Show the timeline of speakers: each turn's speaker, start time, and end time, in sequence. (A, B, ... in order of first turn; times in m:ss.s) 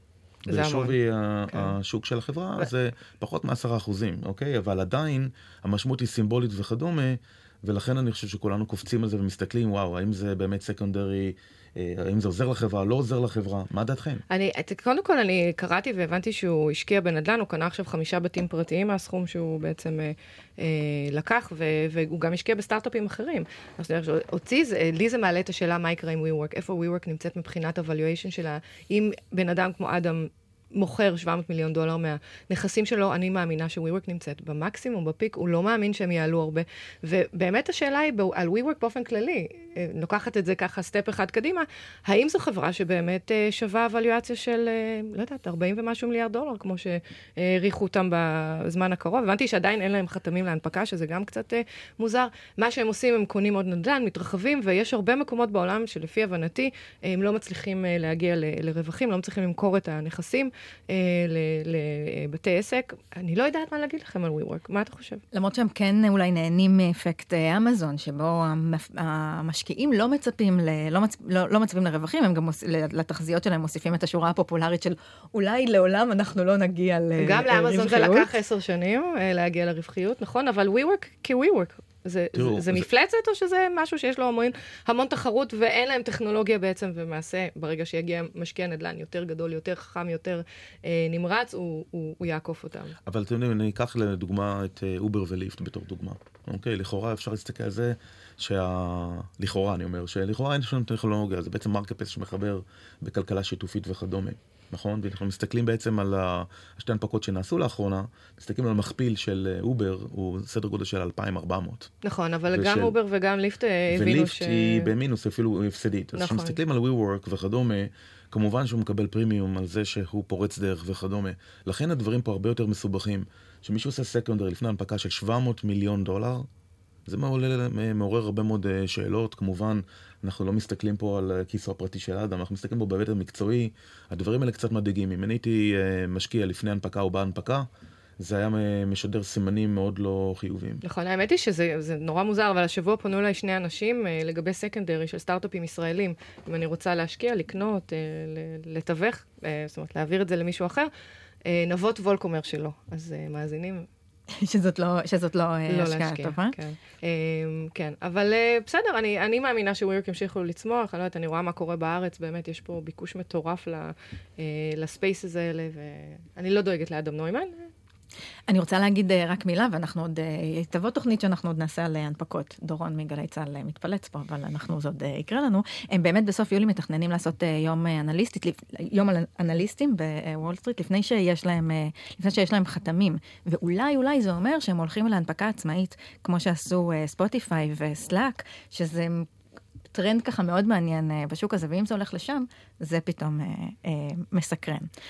0:00.4-0:01.0 A
0:00.5-0:14.2 B
0:01.5-0:01.8 A
0:14.3-1:05.2 A
1:05.3-1:18.3 C
1:17.2-1:33.0 A
1:22.3-1:22.9 B
1:33.1-1:51.9 B
1:52.0-1:54.9 A
1:52.5-1:52.9 B
1:53.9-2:06.5 B
1:56.1-1:56.6 A
2:07.1-2:17.6 B
2:18.2-2:20.8 B
2:20.8-2:30.9 A
2:31.4-2:33.9 A
2:34.3-2:36.6 C
2:35.7-2:47.7 A
2:48.5-3:09.3 C
3:09.9-3:14.9 C